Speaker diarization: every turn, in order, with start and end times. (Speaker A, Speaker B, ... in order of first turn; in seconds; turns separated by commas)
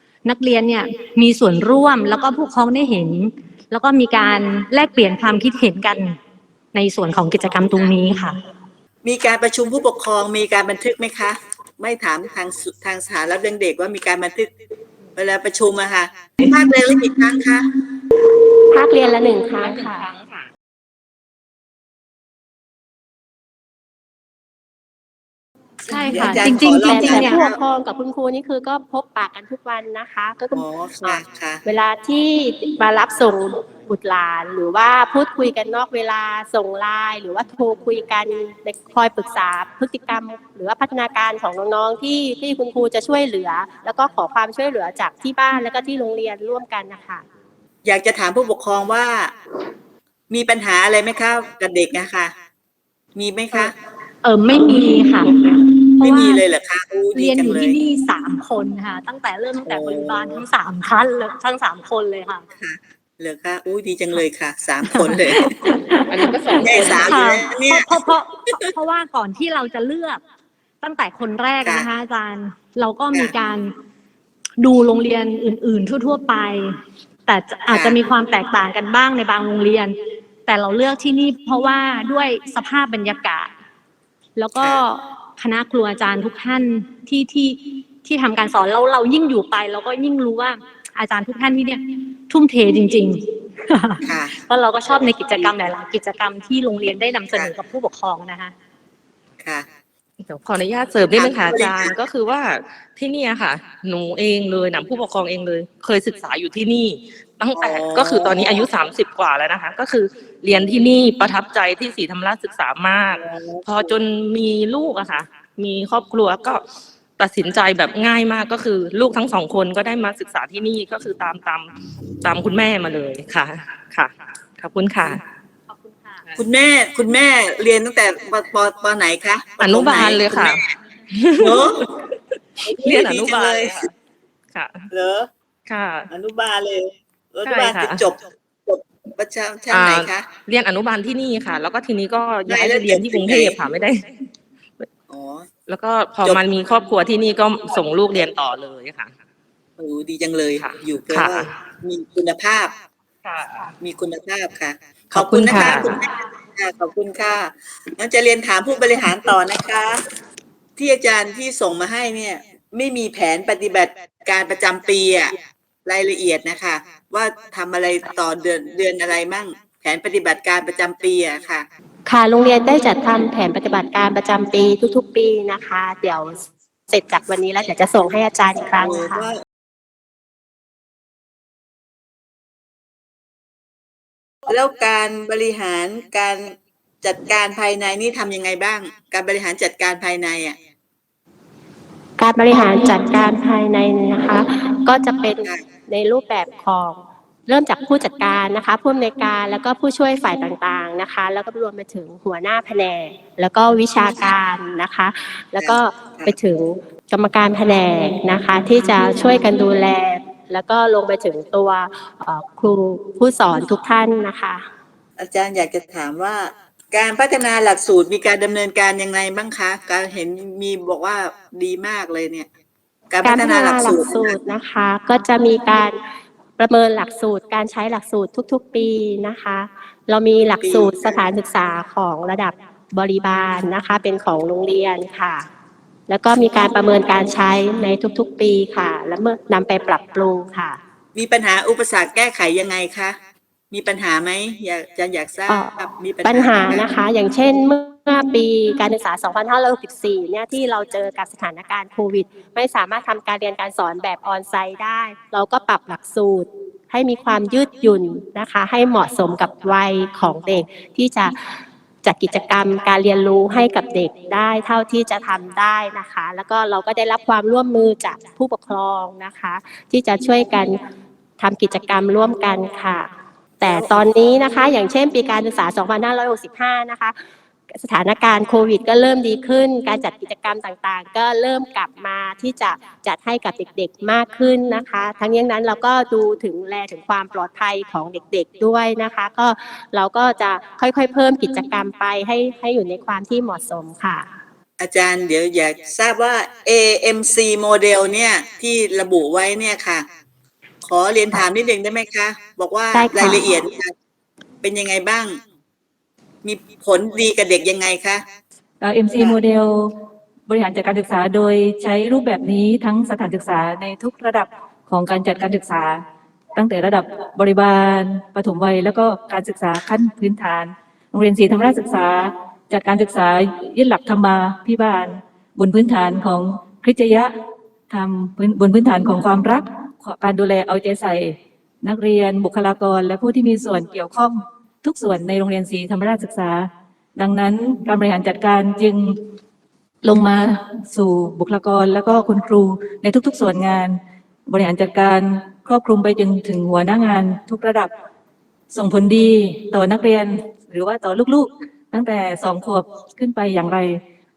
Speaker A: 0.2-6.2, Speaker A: 6.7-8.4, Speaker B: 9.0-14.5, Speaker B: 15.2-17.7, Speaker C: 18.7-20.1, Speaker D: 19.6-20.4, Speaker A: 25.8-27.4, Speaker B: 25.9-27.6, Speaker C: 26.2-47.2, Speaker B: 30.5-31.6, Speaker B: 47.8-49.3, Speaker B: 50.3-52.3, Speaker B: 53.1-53.7, Speaker A: 54.2-56.4, Speaker B: 55.4-57.8, Speaker A: 57.1-62.4, Speaker B: 59.6-60.4, Speaker B: 62.6-65.5, Speaker A: 64.8-66.3, Speaker D: 66.0-67.2, Speaker B: 66.6-68.7, Speaker A: 67.0-70.2, Speaker A: 70.8-73.7, Speaker B: 71.6-71.9, Speaker A: 74.6-83.5, Speaker B: 77.7-78.0, Speaker A: 84.4-98.5, Speaker B: 94.0-94.3, Speaker D: 100.2-116.6, Speaker B: 101.1-101.9, Speaker B: 107.6-108.6, Speaker B: 113.2-113.7, Speaker D: 117.2-125.2, Speaker A: 125.7-126.2, Speaker B: 126.4-130.6, Speaker D: 129.6-130.6, Speaker D: 131.1-131.7, Speaker B: 131.4-131.8, Speaker B: 132.7-133.8, Speaker D: 132.8-133.9, Speaker D: 134.5-134.8, Speaker B: 134.9-135.3, Speaker D: 135.7-136.1, Speaker B: 136.1-140.2, Speaker D: 137.4-138.1, Speaker D: 139.7-144.0, Speaker B: 142.5-143.6, Speaker B: 145.1-145.5, Speaker D: 145.7-149.1, Speaker B: 149.8-152.7, Speaker D: 150.6-151.5, Speaker D: 153.2-153.7, Speaker B: 153.8-160.0, Speaker D: 155.1-156.0, Speaker B: 160.8-165.3, Speaker B: 165.8-171.7, Speaker C: 172.1-176.4, Speaker C: 176.9-179.3, Speaker B: 178.7-179.3, Speaker B: 184.5-190.6, Speaker C: 192.2-214.6, Speaker B: 205.6-206.3, Speaker B: 215.2-222.5, Speaker B: 223.1-224.3, Speaker C: 223.2-226.0, Speaker C: 226.6-235.4, Speaker B: 230.6-231.2, Speaker C: 236.1-240.8, Speaker B: 241.1-243.2, Speaker B: 243.7-246.8, Speaker C: 245.5-261.4, Speaker C: 262.0-270.8, Speaker C: 271.4-273.1, Speaker C: 273.6-277.1, Speaker C: 277.7-294.2, Speaker B: 294.8-300.0, Speaker B: 300.8-303.9, Speaker C: 302.9-303.5, Speaker B: 304.6-305.4, Speaker B: 306.4-308.2, Speaker E: 308.8-309.9, Speaker E: 310.5-316.0, Speaker E: 316.5-327.3, Speaker E: 327.9-339.2, Speaker E: 340.0-347.9, Speaker E: 348.7-354.0